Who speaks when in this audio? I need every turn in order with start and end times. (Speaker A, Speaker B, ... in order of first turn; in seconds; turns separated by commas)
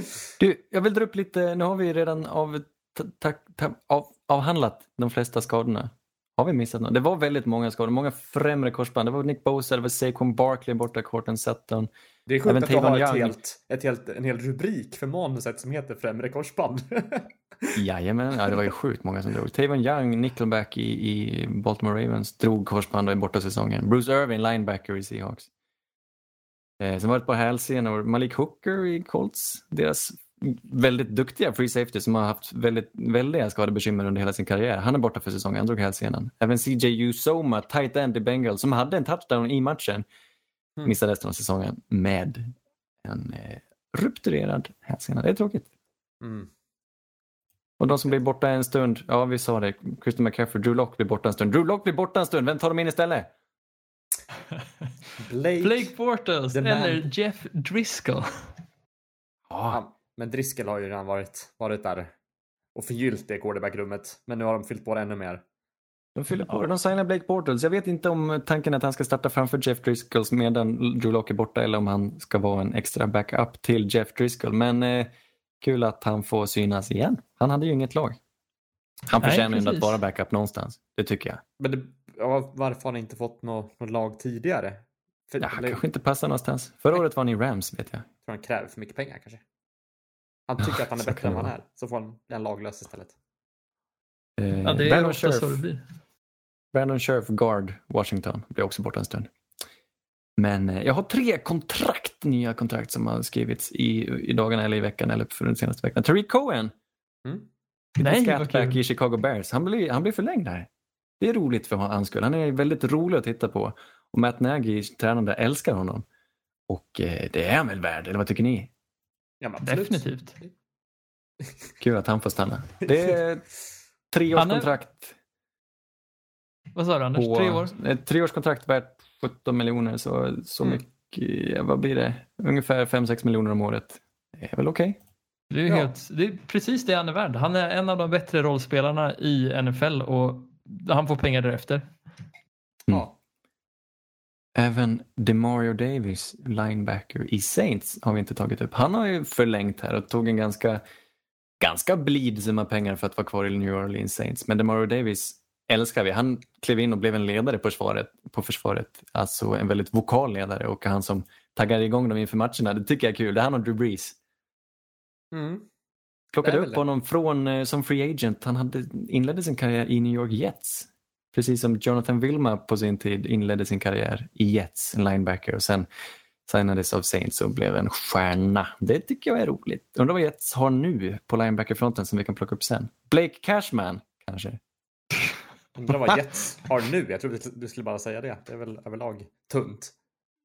Speaker A: 0.4-11.9, Speaker B: 12.3-17.8, Speaker A: 12.4-13.4, Speaker A: 17.8-25.5, Speaker A: 26.8-40.1, Speaker A: 40.9-42.5, Speaker A: 43.0-45.7, Speaker B: 46.2-46.5, Speaker A: 47.8-53.3, Speaker B: 55.2-55.9, Speaker C: 55.6-58.3, Speaker B: 56.5-57.1, Speaker A: 59.5-59.8, Speaker B: 59.7-62.1, Speaker B: 62.8-65.4, Speaker A: 66.2-78.2, Speaker A: 79.1-81.4, Speaker C: 79.2-80.0, Speaker B: 81.6-85.8, Speaker A: 85.4-88.1, Speaker B: 88.3-89.4, Speaker B: 90.5-93.1, Speaker A: 90.6-91.5, Speaker A: 94.4-95.6, Speaker C: 94.6-95.8, Speaker A: 96.7-99.3, Speaker A: 100.4-106.7, Speaker A: 108.0-110.7, Speaker C: 108.0-108.8, Speaker A: 111.2-116.0, Speaker A: 116.7-118.7, Speaker B: 119.4-120.5, Speaker C: 119.6-120.3, Speaker A: 121.8-123.5, Speaker B: 122.9-123.2, Speaker A: 124.1-125.2, Speaker C: 124.3-124.7, Speaker C: 126.8-127.7, Speaker A: 127.2-135.0, Speaker C: 135.5-141.9, Speaker A: 144.6-150.8, Speaker A: 151.6-164.2, Speaker B: 165.3-165.7, Speaker A: 166.3-175.9, Speaker B: 166.4-166.8, Speaker A: 176.5-184.6, Speaker B: 185.8-189.9